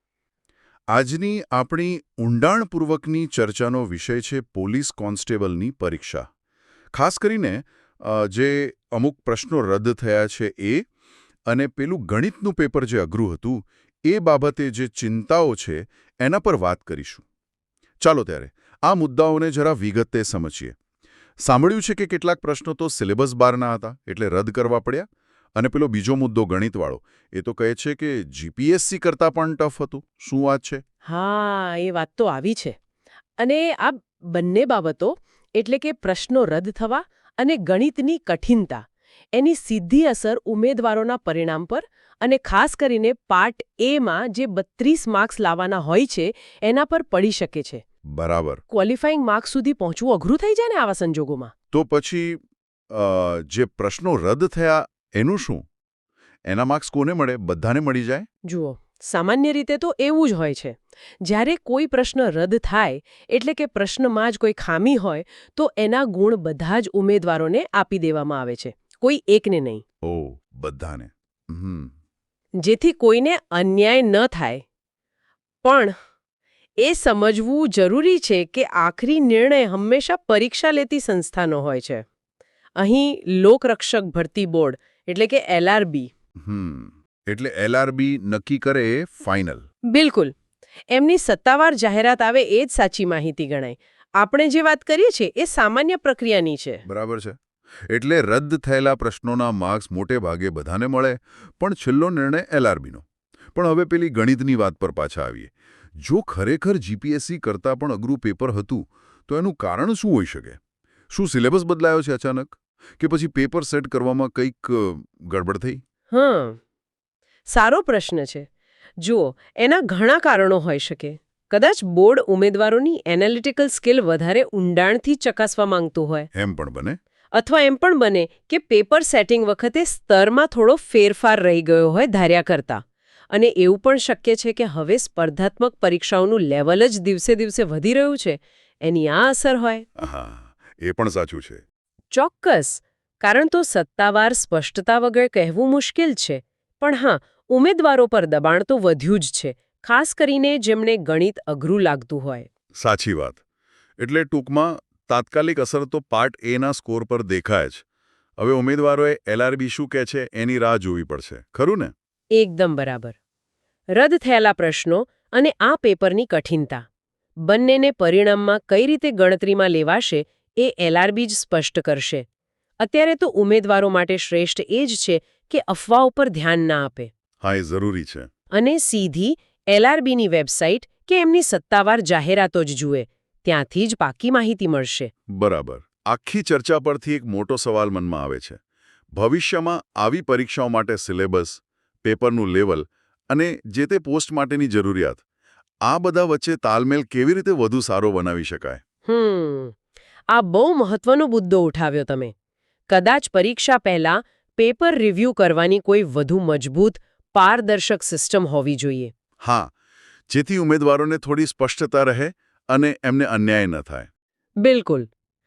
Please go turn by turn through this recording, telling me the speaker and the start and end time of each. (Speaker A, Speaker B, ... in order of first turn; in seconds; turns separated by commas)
Speaker A: 0.9-6.2, Speaker A: 6.9-10.9, Speaker A: 11.5-17.2, Speaker A: 18.0-20.8, Speaker A: 21.4-30.8, Speaker B: 31.0-32.7, Speaker B: 33.4-47.8, Speaker A: 48.1-48.6, Speaker B: 48.7-51.5, Speaker A: 51.7-55.6, Speaker A: 56.5-58.3, Speaker B: 58.4-69.8, Speaker A: 70.0-71.9, Speaker B: 72.6-74.6, Speaker B: 75.6-75.9, Speaker B: 76.8-82.0, Speaker B: 82.8-86.1, Speaker A: 86.4-89.6, Speaker B: 89.9-90.3, Speaker B: 90.9-96.8, Speaker A: 96.8-97.4, Speaker A: 97.9-110.6, Speaker A: 111.1-115.8, Speaker B: 116.1-116.6, Speaker B: 117.5-118.5, Speaker B: 119.0-126.3, Speaker A: 126.3-127.0, Speaker B: 127.3-139.8, Speaker A: 140.0-141.6, Speaker B: 142.1-152.5, Speaker A: 152.8-153.4, Speaker A: 154.0-157.8, Speaker A: 158.4-161.9, Speaker B: 162.3-163.1, Speaker B: 163.9-166.8, Speaker B: 167.4-172.2, Speaker B: 172.8-177.1, Speaker A: 177.4-178.3, Speaker B: 178.5-185.1, Speaker A: 185.3-188.6, Speaker A: 189.1-195.2, Speaker A: 195.8-198.8, Speaker B: 199.1-199.8, Speaker B: 200.3-202.3, Speaker B: 202.9-209.1, Speaker A: 209.4-209.7, Speaker A: 210.3-214.1, Speaker B: 214.6-215.1